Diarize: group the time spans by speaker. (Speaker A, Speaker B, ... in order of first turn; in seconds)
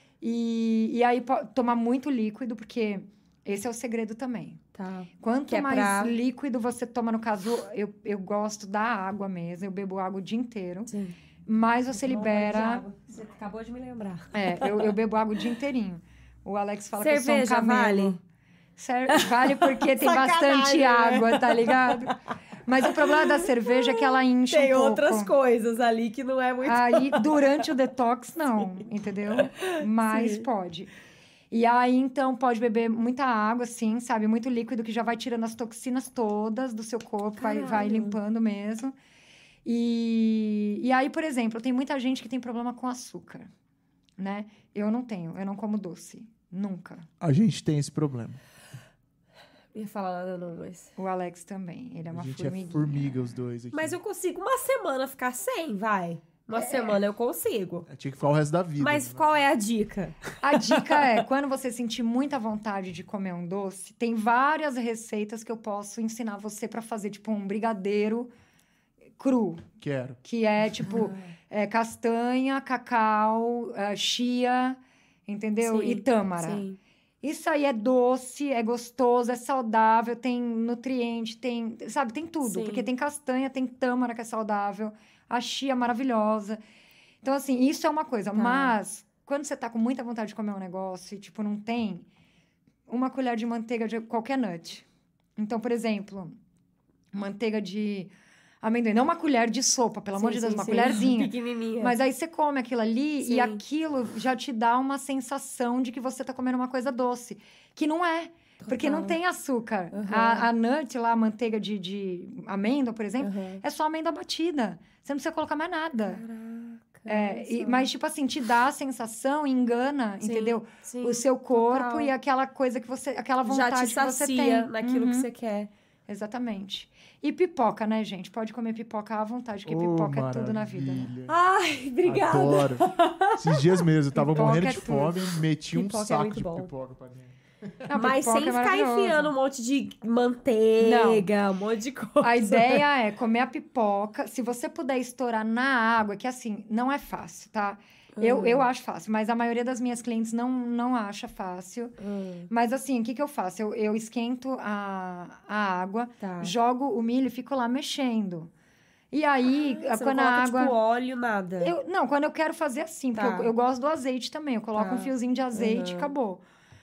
Speaker A: 0.2-4.6, 5.2-10.9, 11.5-12.9, 14.3-18.2, 18.8-25.3, 26.6-30.9, 31.5-38.9, 39.6-43.5, 44.2-47.1, 51.0-53.4, 56.6-57.0, 60.4-68.3, 69.2-69.7, 70.2-76.6, 77.2-86.6, 87.2-92.1, 92.9-94.9, 95.4-96.4, 97.1-98.1, 98.6-116.2, 117.1-125.3, 126.1-131.1, 134.1-135.3, 137.9-139.3, 140.8-141.3, 142.2-152.0, 152.5-158.5, 159.1-160.7, 161.6-166.4
Speaker B: 4.8-6.2, 10.9-11.2, 12.0-15.0, 17.0-18.2, 19.1-22.1, 22.8-27.7, 29.3-30.5, 37.4-38.2, 49.7-50.9, 53.7-57.9, 58.8-61.2, 70.9-71.3, 75.6-76.8, 82.4-82.9, 88.3-88.8, 100.2-102.0, 103.2-103.6, 108.6-109.2, 109.9-110.5, 113.2-113.6, 116.1-117.9, 120.2-122.1, 123.5-125.7, 131.3-134.7, 135.7-136.7, 137.9-142.8, 148.2-148.7, 152.0-152.5, 156.2-156.5, 159.5-161.8, 163.2-163.5, 164.8-166.1
Speaker C: 47.2-48.4, 52.1-54.0, 57.9-59.2, 69.8-70.2, 129.7-131.3, 132.1-137.8